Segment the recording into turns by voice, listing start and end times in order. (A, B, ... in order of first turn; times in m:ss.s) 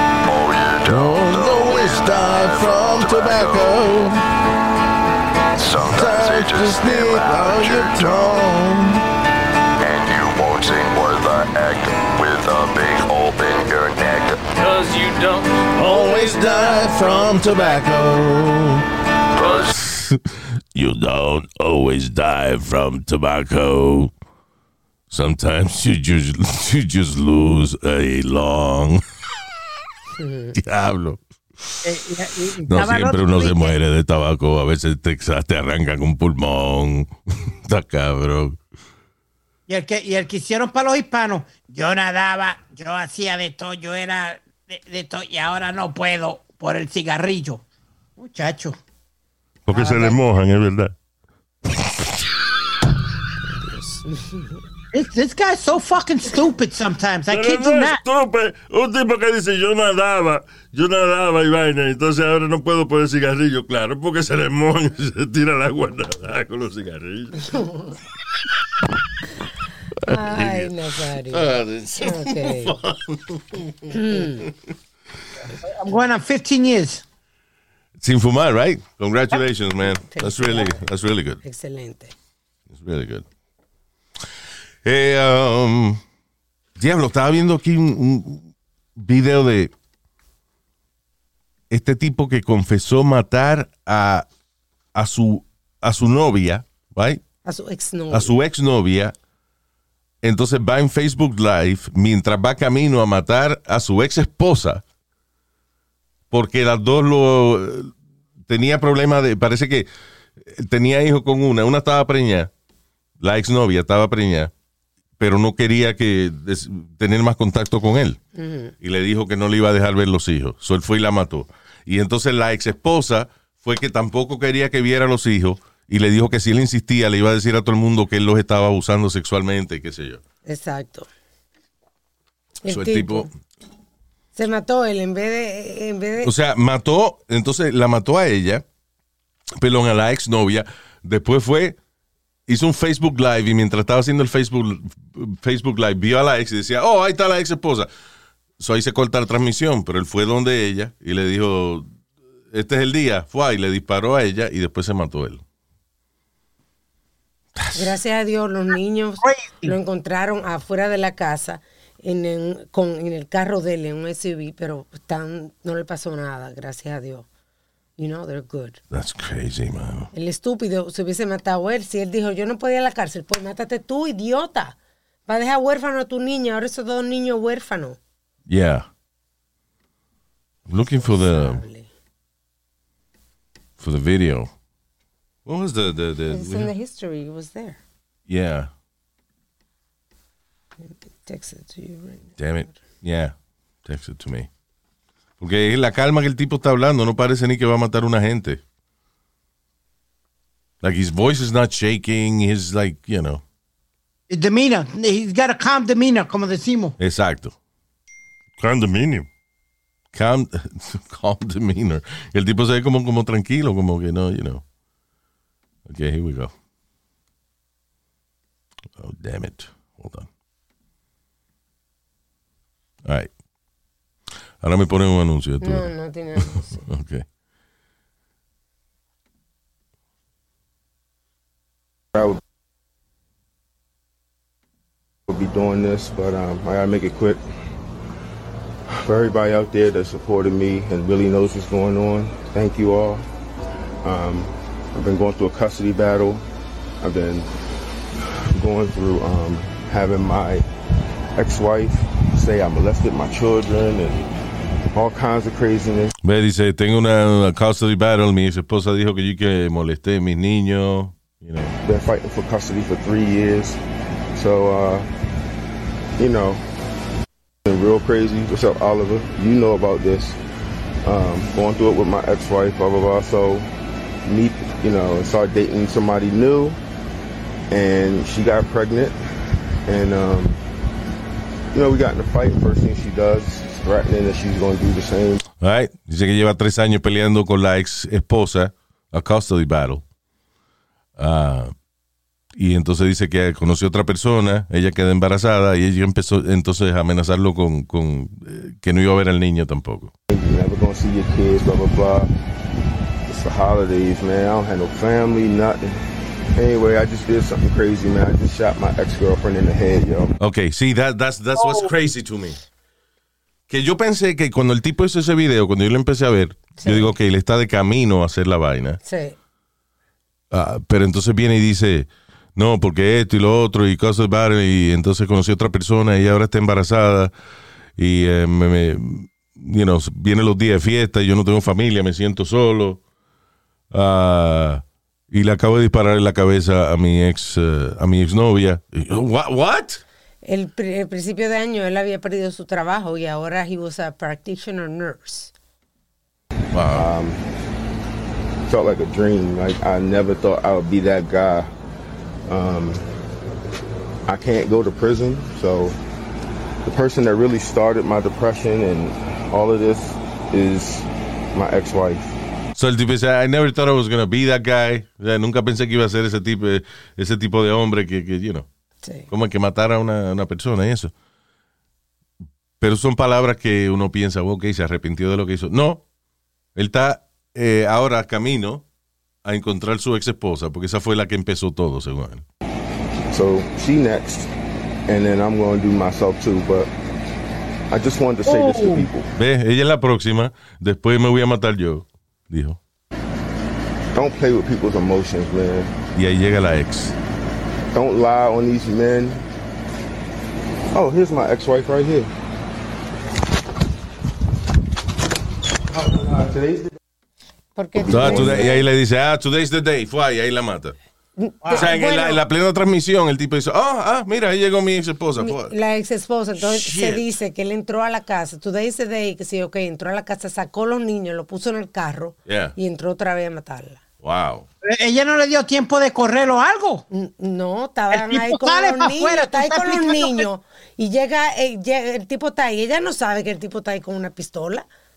0:00.2-0:04.1 A
0:00.9-0:04.2 B
0:05.6-0:08.4 A
0:05.8-0:09.0 B
0:09.8-0:17.6 A
0:15.7-0:18.9 B
0:19.3-0:19.7 A
0:19.6-0:20.2 B
0:20.7-0:24.1 B
0:25.1-0:29.0 B
0:30.2-0:30.6 C
0:30.6-0:31.8 B
0:31.8-0:33.8 D
0:32.7-0:38.6 B
0:39.7-0:47.6 D
0:48.2-0:48.8 D
0:49.7-0:50.9 E
0:49.7-0:50.1 C
0:53.4-0:54.6 C
0:54.9-0:58.0 D
0:57.3-1:07.7 E
1:10.0-1:12.8 C
1:11.3-1:14.5 B
1:13.9-1:14.5 C
1:15.6-1:17.0 D
1:18.0-1:21.4 B
1:20.1-1:20.8 C
1:21.4-1:22.1 C
1:22.7-1:23.2 B
1:24.8-1:26.0 B
1:26.8-1:29.7 B
1:31.7-1:34.3 B
1:35.0-1:37.2 B
1:37.4-1:38.3 C
1:38.1-1:39.2 B
1:40.2-1:44.8 B
1:46.3-1:47.9 B
1:48.5-1:49.9 B
1:50.4-1:52.5 B
1:53.2-1:54.5 B
1:55.2-1:58.2 B
1:58.4-1:58.7 C
1:58.8-2:10.2 B
2:10.5-2:11.1 C
2:12.6-2:13.3 C
2:12.7-2:13.3 B
2:14.4-2:16.3 C
2:16.2-2:18.6 B
2:19.6-2:21.8 B
2:22.5-2:27.9 B
2:28.6-2:31.9 B
2:32.5-2:35.4 B
2:37.6-2:37.9 B
2:37.7-2:47.3 C
2:39.2-2:39.8 D
2:48.0-2:48.8 C
2:48.9-2:50.1 B
2:50.1-2:58.0 C
2:58.5-2:58.9 B
3:00.7-3:01.6 B
3:00.9-3:01.9 C
3:03.8-3:04.5 B
3:05.5-3:06.7 B
3:06.3-3:07.8 C
3:08.3-3:08.7 B
3:10.8-3:12.4 C
3:12.4-3:14.5 B
3:15.4-3:18.6 B
3:20.8-3:23.4 B
3:24.3-3:27.0 D
3:27.0-3:27.5 B
3:28.6-3:29.3 E
3:30.1-3:34.6 B
3:35.9-3:36.5 B
3:39.0-3:40.3 B
3:43.1-3:43.3 B
3:44.6-3:47.2 B
3:45.6-3:46.8 C
3:55.3-3:57.4 F
3:59.0-4:03.2 F
4:04.0-4:06.4 F
4:07.0-4:07.5 F
4:08.5-4:10.7 F
4:11.4-4:14.3 F
4:14.9-4:16.1 F
4:16.2-4:21.7 B
4:21.8-4:23.8 F
4:24.4-4:25.1 F
4:26.2-4:26.6 F
4:27.6-4:30.4 F
4:31.0-4:33.7 F
4:34.2-4:36.8 F
4:37.7-4:39.2 F
4:39.9-4:40.6 F
4:41.7-4:45.4 F
4:45.6-4:50.0 B
4:51.2-4:51.7 B
4:52.6-5:00.1 B
5:00.3-5:02.3 F
5:03.3-5:06.0 F
5:06.6-5:10.4 F
5:10.4-5:12.6 B
5:11.6-5:11.9 D
5:13.7-5:19.0 B
5:16.8-5:17.1 C
5:19.0-5:19.4 C
5:20.5-5:27.3 B
5:28.0-5:33.0 B
5:33.9-5:40.0 B
5:40.4-5:45.5 C
5:46.7-5:47.1 B
5:46.9-5:47.4 F
5:48.7-5:51.7 F
5:52.5-5:53.0 F
5:54.3-5:56.0 F
5:56.8-6:02.3 F
6:02.8-6:08.7 B
6:09.0-6:09.3 C
6:09.3-6:11.1 B
6:12.8-6:16.0 B
6:16.8-6:18.8 B
6:19.4-6:22.4 B
6:23.3-6:24.5 F
6:25.1-6:26.9 F
6:27.9-6:29.3 F
6:28.6-6:29.0 C
6:29.4-6:32.8 B
6:34.1-6:35.9 F
6:36.2-6:37.2 B
6:37.9-6:39.4 F
6:40.9-6:42.3 F
6:45.9-6:46.9 F
6:47.8-6:48.8 C
6:48.1-6:51.0 B
6:48.1-6:48.6 F
6:51.4-6:52.4 C
6:51.6-6:51.9 D
6:51.7-6:55.7 B
6:55.4-7:04.0 C
6:56.6-6:57.2 B
7:02.5-7:02.8 B
7:04.2-7:04.7 B
7:04.8-7:07.1 D
7:07.1-7:14.9 C
7:08.1-7:10.5 D